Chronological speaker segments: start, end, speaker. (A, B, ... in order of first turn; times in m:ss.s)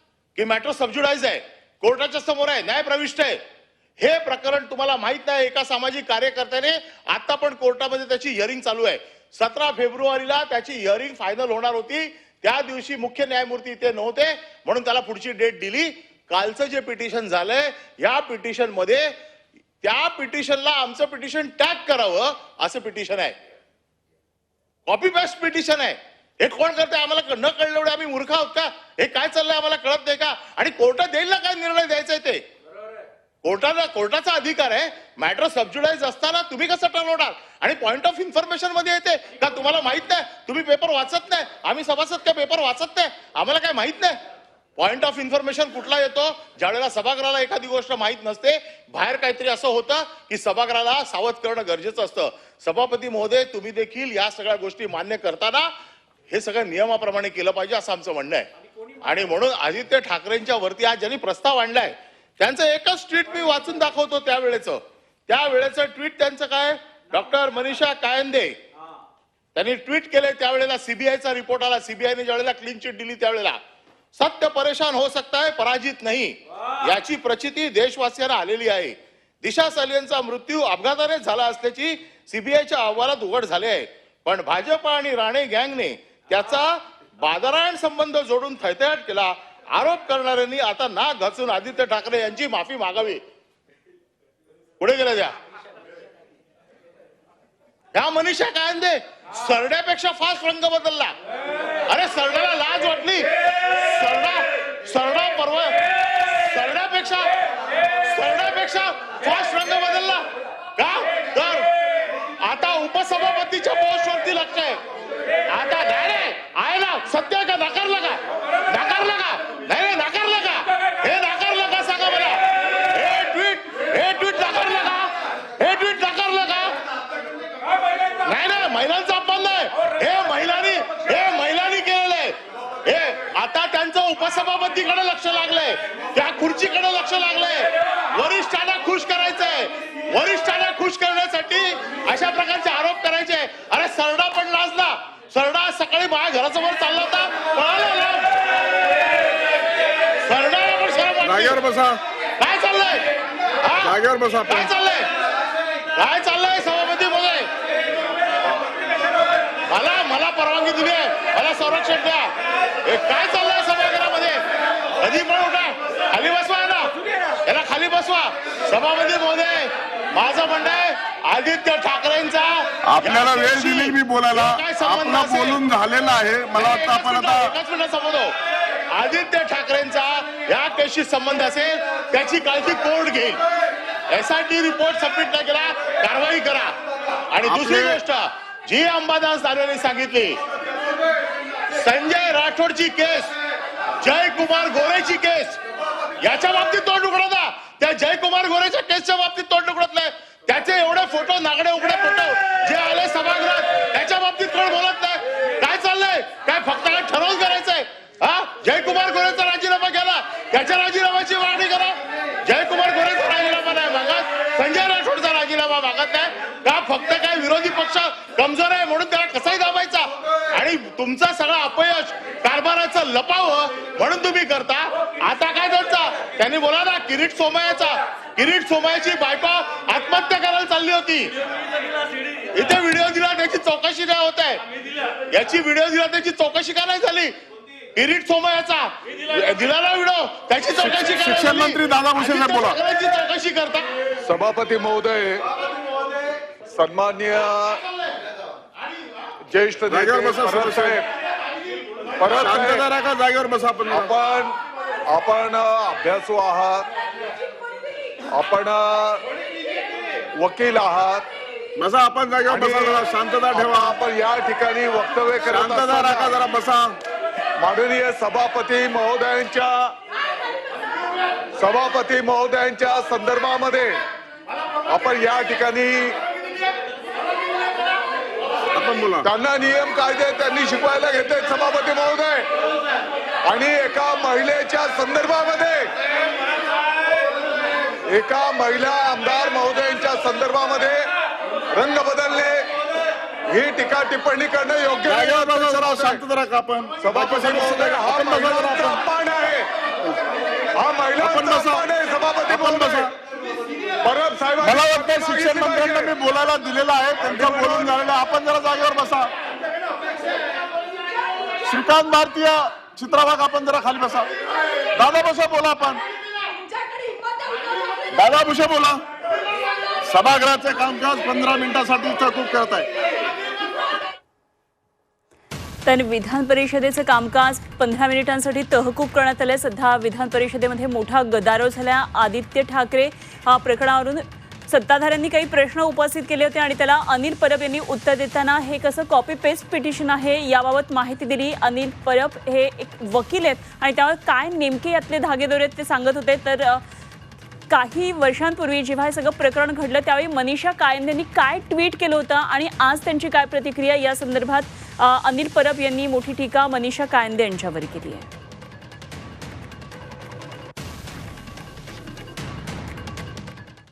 0:00.4-0:03.4 A
0:04.0-0:19.1 A
0:19.8-0:23.3 A
0:24.9-0:32.4 A
0:33.4-0:44.2 A
0:44.8-0:55.7 A
0:56.3-0:58.5 A
0:59.0-1:08.6 A
1:09.6-1:13.6 A
1:14.2-1:33.2 A
1:34.8-1:35.4 A
1:37.9-1:41.1 A
1:41.9-1:47.3 A
1:48.1-1:50.2 A
1:50.8-1:51.7 A
1:52.4-1:54.8 A
1:55.5-2:06.7 A
2:08.2-2:28.3 A
2:30.2-2:31.6 A
2:31.2-2:32.0 B
2:32.4-2:33.0 A
2:33.6-2:34.0 A
2:33.8-2:34.7 B
2:34.5-2:35.1 A
2:36.0-2:37.5 A
2:39.7-2:42.3 A
2:42.8-2:44.4 A
2:45.0-2:46.9 A
2:47.4-2:55.6 A
2:52.8-2:57.5 B
2:56.6-2:58.3 A
2:58.9-3:03.4 A
3:04.1-3:06.8 A
3:07.3-3:10.4 A
3:07.4-3:08.0 B
3:11.7-3:13.3 A
3:14.0-3:15.6 A
3:16.2-3:51.3 A
3:52.5-3:54.6 A
3:55.3-3:57.3 A
3:58.0-4:03.8 A
4:00.8-4:02.8 B
4:04.2-4:05.4 C
4:06.7-4:07.8 C
4:09.5-4:11.0 C
4:09.9-4:11.0 B
4:12.2-4:12.9 C
4:12.3-4:14.1 B
4:13.9-4:14.6 C
4:15.1-4:16.9 C
4:18.3-4:19.2 C
4:20.4-4:21.2 C
4:21.8-4:24.0 B
4:22.5-4:26.4 C
4:25.5-4:26.9 B
4:27.6-4:29.9 C
4:31.6-4:34.0 C
4:34.9-4:36.2 C
4:38.7-4:39.3 B
4:39.2-4:42.5 C
4:43.5-4:45.9 C
4:48.0-4:51.1 C
4:51.7-4:52.7 C
4:53.5-4:56.2 C
4:55.1-4:59.0 B
4:57.0-4:59.7 C
5:00.8-5:03.1 C
5:01.2-5:01.8 B
5:02.5-5:03.1 B
5:04.0-5:06.2 C
5:04.6-5:09.3 B
5:07.3-5:08.0 C
5:11.6-5:14.3 B
5:15.0-5:16.0 B
5:18.1-5:19.0 B
5:20.0-5:22.9 B
5:25.8-5:46.8 D
5:47.7-5:58.3 D